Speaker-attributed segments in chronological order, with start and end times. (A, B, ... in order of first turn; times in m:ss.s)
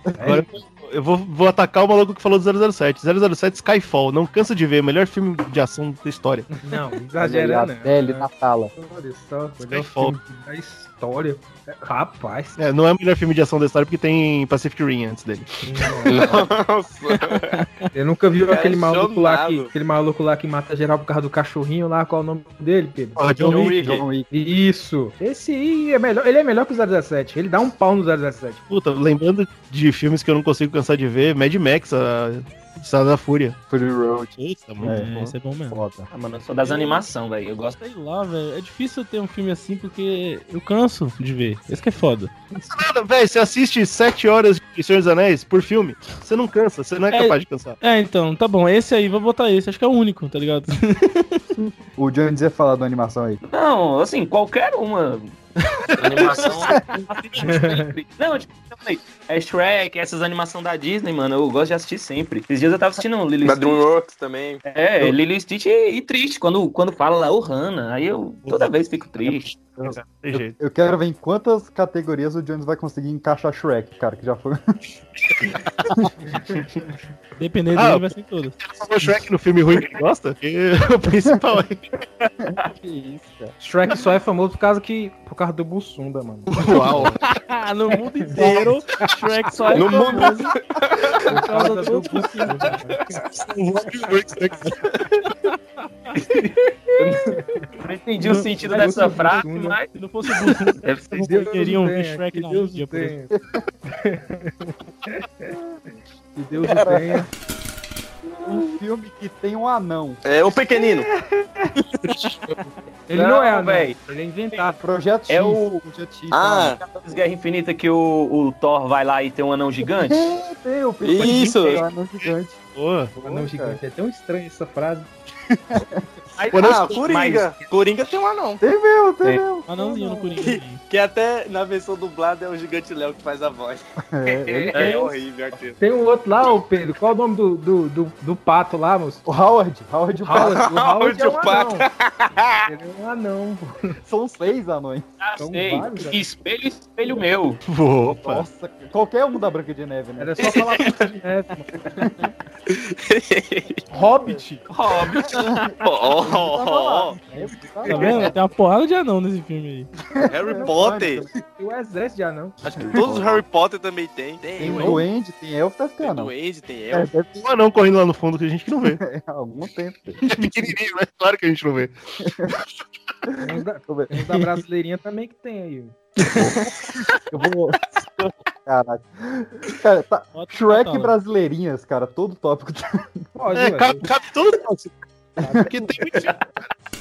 0:00.1-0:00.4 A
0:00.2-0:00.5 B
0:00.2-0:06.5 C
0:06.6-0:12.6 B
0:07.2-0:08.7 A
0:09.6-0:10.2 C
0:12.6-0:15.6 C
0:15.6-0:16.4 B
0:16.1-0:17.6 D
0:17.5-0:17.9 E
0:17.9-0:23.6 B
0:18.5-0:19.7 D
0:23.2-0:24.0 C
0:23.5-0:24.0 D
0:23.8-0:24.3 A
0:24.3-0:28.6 B
0:28.7-0:33.6 C
0:33.7-0:36.1 A
0:34.4-0:35.3 C
0:34.8-0:35.8 E
0:36.1-0:37.8 F
0:36.7-0:37.0 E
0:37.8-0:42.3 E
0:42.6-0:47.8 C
0:47.1-0:51.4 E
0:52.0-0:53.4 A
0:53.5-0:55.4 F
0:56.0-1:03.8 F
0:57.4-0:57.9 B
1:03.4-1:04.6 D
1:04.6-1:09.5 F
1:08.5-1:10.6 C
1:10.3-1:14.6 A
1:15.4-1:16.1 C
1:17.4-1:18.6 E
1:17.7-1:21.9 C
1:22.4-1:23.6 A
1:23.6-1:27.1 B
1:26.5-1:27.2 C
1:27.3-1:30.5 E
1:28.2-1:28.6 B
1:29.7-1:31.3 D
1:31.3-1:33.2 B
1:31.3-1:32.8 E
1:33.3-1:34.8 C
1:35.3-1:36.1 E
1:36.2-1:37.2 F
1:37.0-1:37.3 D
1:37.3-1:37.6 B
1:37.8-1:39.9 F
1:38.2-1:43.2 E
1:38.6-1:39.8 B
1:40.8-1:41.3 F
1:41.2-1:43.3 B
1:43.3-1:43.6 A
1:43.9-1:45.6 B
1:45.5-1:45.8 A
1:46.4-1:47.3 B
1:46.6-1:47.2 A
1:48.3-1:48.7 B
1:48.4-1:50.2 A
1:50.2-1:51.1 D
1:50.8-1:51.7 B
1:52.1-1:52.4 C
1:53.1-1:54.8 B
1:53.1-1:54.0 F
1:54.8-1:56.8 A
1:55.3-1:55.7 F
1:56.3-1:56.8 D
1:56.8-2:00.4 F
1:59.8-2:02.6 A
2:01.0-2:01.9 D
2:02.2-2:03.1 C
2:03.2-2:03.8 A
2:03.2-2:05.1 B
2:05.7-2:06.0 A
2:06.4-2:07.7 F
2:06.5-2:07.0 C
2:06.6-2:08.6 D
2:08.6-2:10.4 A
2:09.7-2:10.8 E
2:10.4-2:13.8 D
2:14.1-2:14.9 A
2:14.5-2:15.8 D
2:14.7-2:15.2 F
2:15.8-2:19.2 B
2:19.3-2:20.6 A
2:20.2-2:21.9 B
2:20.3-2:22.7 D
2:22.7-2:24.0 B
2:24.0-2:25.1 A
2:25.2-2:27.6 F
2:25.4-2:26.2 B
2:27.6-2:28.5 C
2:28.1-2:30.5 A
2:30.2-2:32.0 B
2:30.4-2:30.8 D
2:32.0-2:32.3 A
2:32.7-2:33.8 D
2:33.9-2:34.7 B
2:34.7-2:35.7 F
2:34.9-2:37.2 D
2:35.3-2:38.3 A
2:37.8-2:38.3 B
2:37.9-2:39.9 E
2:40.2-2:41.4 A
2:40.3-2:41.3 D
2:41.6-2:42.6 B
2:42.6-2:45.0 D
2:42.8-2:43.4 A
2:44.6-2:46.3 A
2:44.7-2:45.0 B
2:46.0-2:47.1 D
2:46.9-2:49.0 C
2:48.9-2:50.5 A
2:50.2-2:51.9 C
2:52.2-2:52.5 A
2:53.3-2:54.1 A
2:53.4-2:56.0 B
2:57.3-2:57.8 A
2:58.7-3:03.3 A
3:00.3-3:01.2 E
3:03.4-3:04.0 B
3:03.5-3:06.4 C
3:05.4-3:05.8 A